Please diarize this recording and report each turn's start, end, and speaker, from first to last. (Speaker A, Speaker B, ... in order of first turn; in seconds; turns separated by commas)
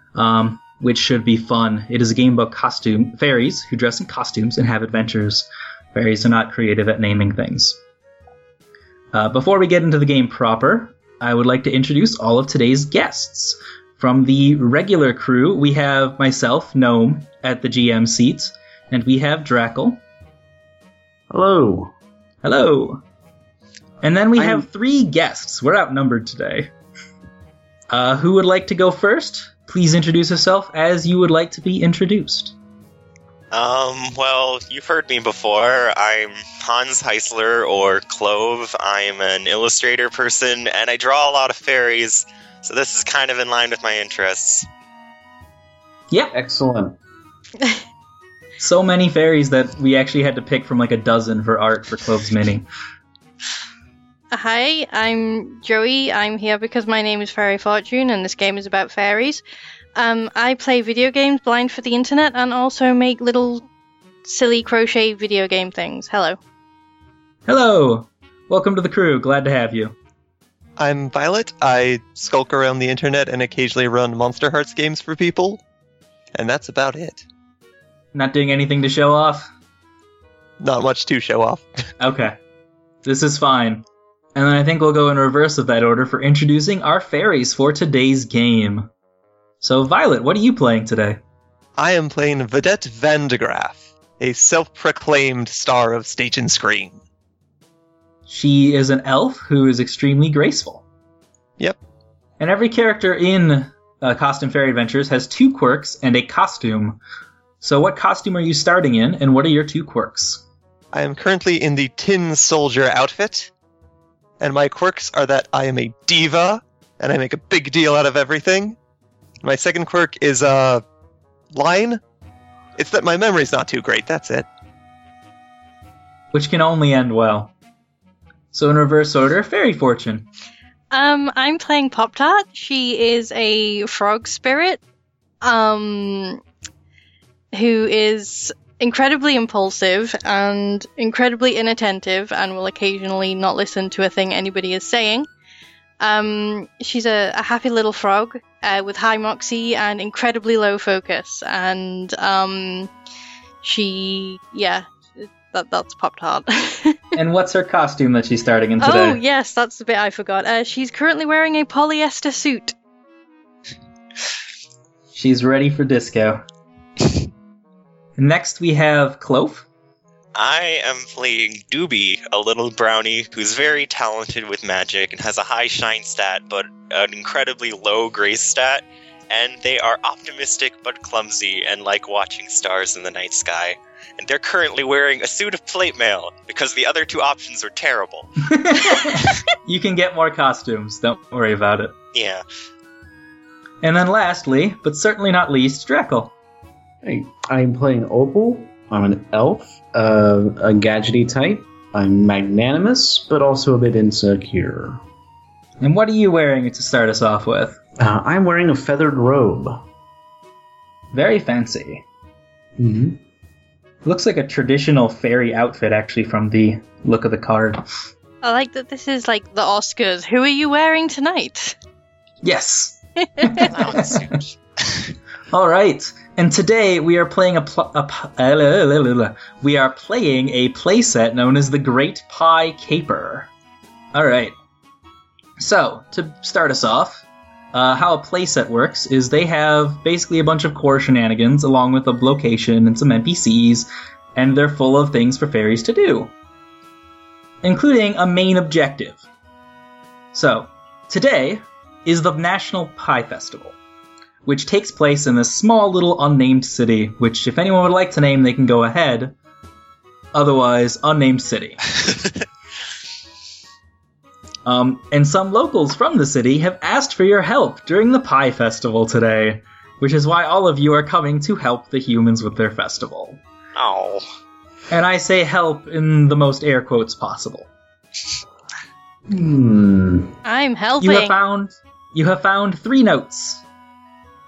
Speaker A: 0.1-7.8, Speaker A: 9.1-20.0, Speaker B: 21.3-21.9, Speaker A: 22.4-23.0, Speaker A: 24.0-26.7, Speaker B: 24.4-24.7, Speaker A: 27.9-32.5, Speaker C: 33.5-44.7, Speaker B: 46.3-47.0, Speaker A: 48.6-52.7, Speaker D: 54.3-59.4, Speaker D: 60.0-63.7, Speaker D: 64.2-66.4, Speaker A: 67.5-70.0, Speaker E: 70.8-75.6, Speaker E: 76.3-77.2, Speaker A: 78.1-79.5, Speaker E: 80.6-81.7, Speaker A: 82.0-82.4, Speaker A: 83.0-88.9, Speaker A: 89.6-91.2, Speaker E: 91.8-97.0, Speaker A: 98.3-100.8, Speaker A: 102.4-107.0, Speaker A: 107.6-110.4, Speaker E: 110.9-113.5, Speaker E: 114.4-118.8, Speaker E: 119.4-120.8, Speaker E: 121.5-122.0, Speaker E: 122.8-124.5, Speaker A: 126.3-127.5, Speaker A: 128.5-130.3, Speaker D: 130.9-134.8, Speaker D: 135.4-136.4, Speaker D: 137.5-145.3, Speaker D: 146.0-152.9, Speaker D: 153.6-157.2, Speaker A: 157.2-159.2, Speaker D: 158.8-162.8, Speaker A: 165.1-166.4, Speaker A: 168.2-169.7, Speaker C: 170.3-188.5, Speaker A: 188.4-191.9, Speaker C: 189.0-189.2, Speaker C: 192.1-192.4, Speaker A: 193.8-196.3, Speaker B: 197.0-205.0, Speaker A: 205.8-207.8, Speaker B: 208.0-209.8, Speaker A: 211.1-212.0, Speaker B: 212.8-213.2, Speaker A: 214.1-217.8, Speaker D: 218.4-221.8, Speaker A: 222.4-224.3, Speaker D: 223.3-223.7, Speaker C: 223.6-224.5, Speaker A: 225.5-233.5, Speaker A: 234.1-234.5, Speaker A: 235.6-246.3, Speaker A: 247.6-249.2, Speaker A: 250.3-253.8, Speaker A: 254.5-259.4, Speaker A: 260.3-261.9, Speaker A: 264.6-273.4, Speaker C: 273.8-274.2, Speaker A: 274.9-277.7, Speaker B: 279.3-280.3, Speaker D: 280.4-281.3, Speaker A: 281.0-283.6